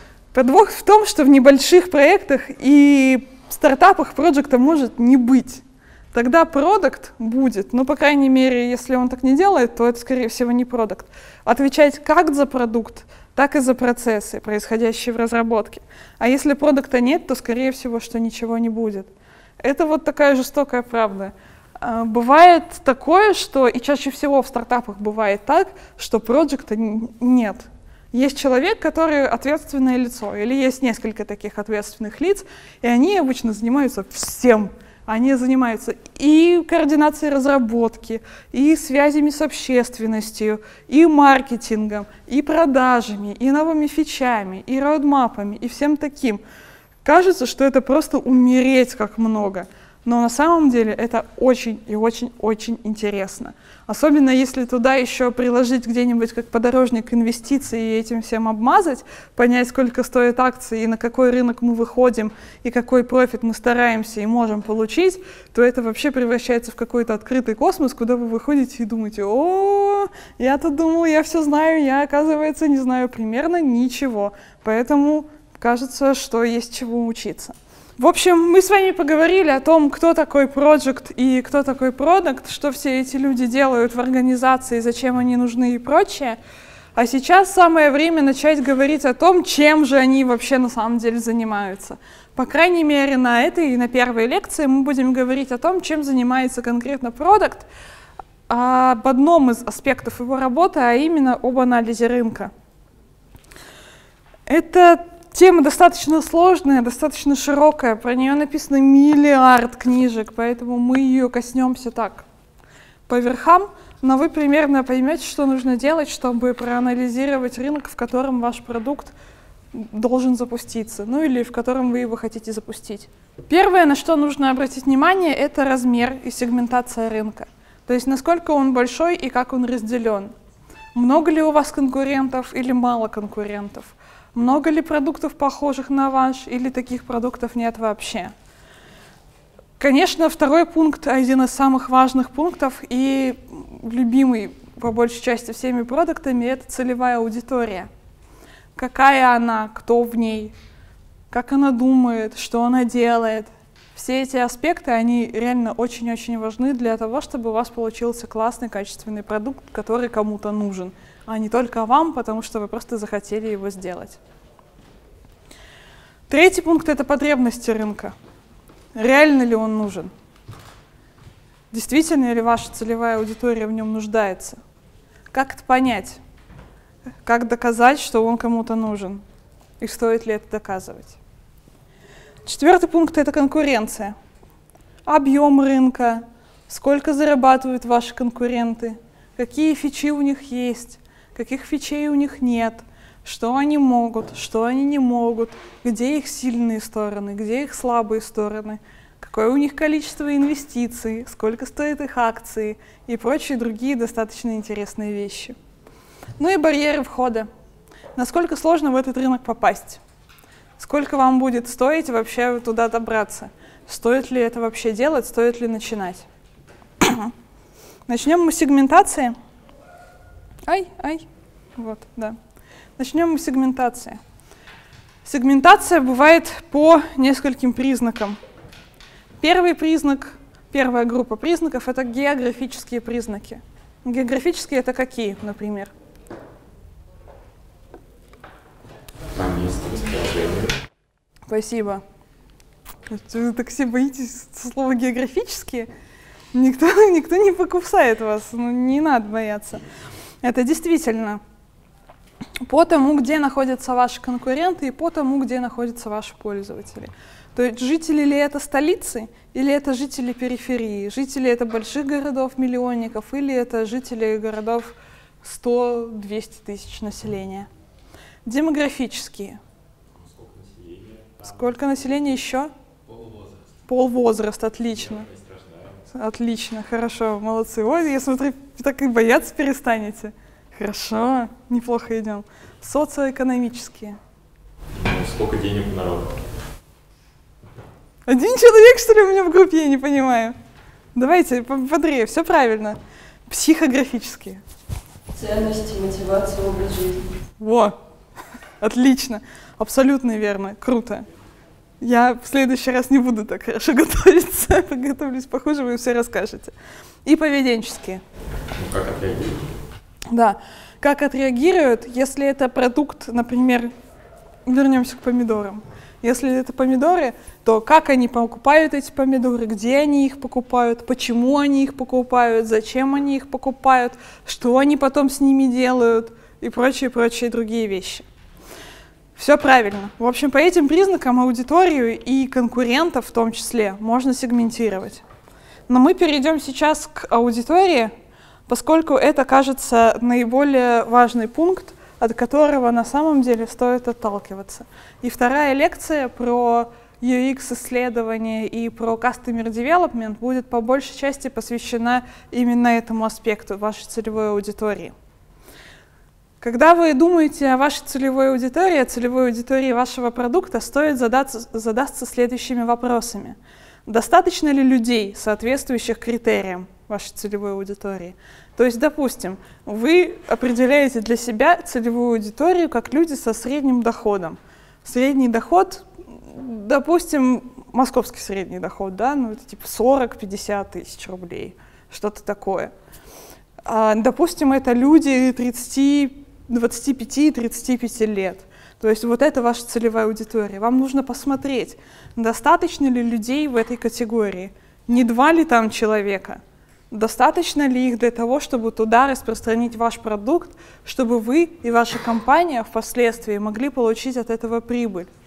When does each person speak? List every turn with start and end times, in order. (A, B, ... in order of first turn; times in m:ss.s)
0:00.3-0:19.1 A
0:19.6-0:46.4 A
0:47.0-1:26.4 A
1:27.0-1:37.7 A
1:38.5-1:42.5 A
1:44.5-1:52.3 A
1:53.1-1:59.1 A
1:59.7-2:10.3 A
2:11.0-2:18.3 A
2:19.8-2:27.9 A
2:28.8-2:30.5 A
2:31.3-2:44.2 A
2:46.3-2:48.1 A
2:49.0-2:50.1 A
2:51.7-2:54.6 A
2:55.3-2:56.2 A
2:57.2-2:59.2 A
2:59.8-3:01.2 A
3:02.4-3:04.2 A
3:05.1-3:25.6 A
3:26.4-3:27.5 A
3:28.2-3:30.0 A
3:30.8-3:36.3 A
3:37.0-3:37.3 A
3:38.1-3:39.4 A
3:40.7-3:41.2 A
3:41.8-3:42.4 A
3:43.0-3:44.2 A
3:45.2-3:48.4 A
3:49.4-3:55.9 A
3:59.3-4:00.8 B
4:01.5-4:02.0 A
4:03.1-4:05.9 A
4:06.5-4:09.8 A
4:10.4-4:11.4 A
4:12.7-4:27.7 A
4:28.4-4:29.6 A
4:30.2-4:31.5 B
4:31.4-4:32.7 A
4:33.1-4:33.5 B
4:33.9-4:35.3 A
4:35.1-4:36.0 B
4:36.1-4:44.2 A
4:44.9-4:46.4 B
4:48.3-4:50.6 A
4:51.2-4:54.6 A
4:55.3-4:57.3 C
4:57.6-4:58.0 A
4:58.8-5:01.3 A
5:02.0-5:06.7 A
5:07.2-5:08.2 A
5:08.8-5:09.6 B
5:10.3-5:13.9 A
5:14.7-5:28.2 A
5:29.4-5:35.2 A
5:35.9-5:38.1 A
5:38.7-5:55.1 A
5:56.6-6:22.9 A
6:23.8-6:36.6 A
6:37.1-6:45.3 A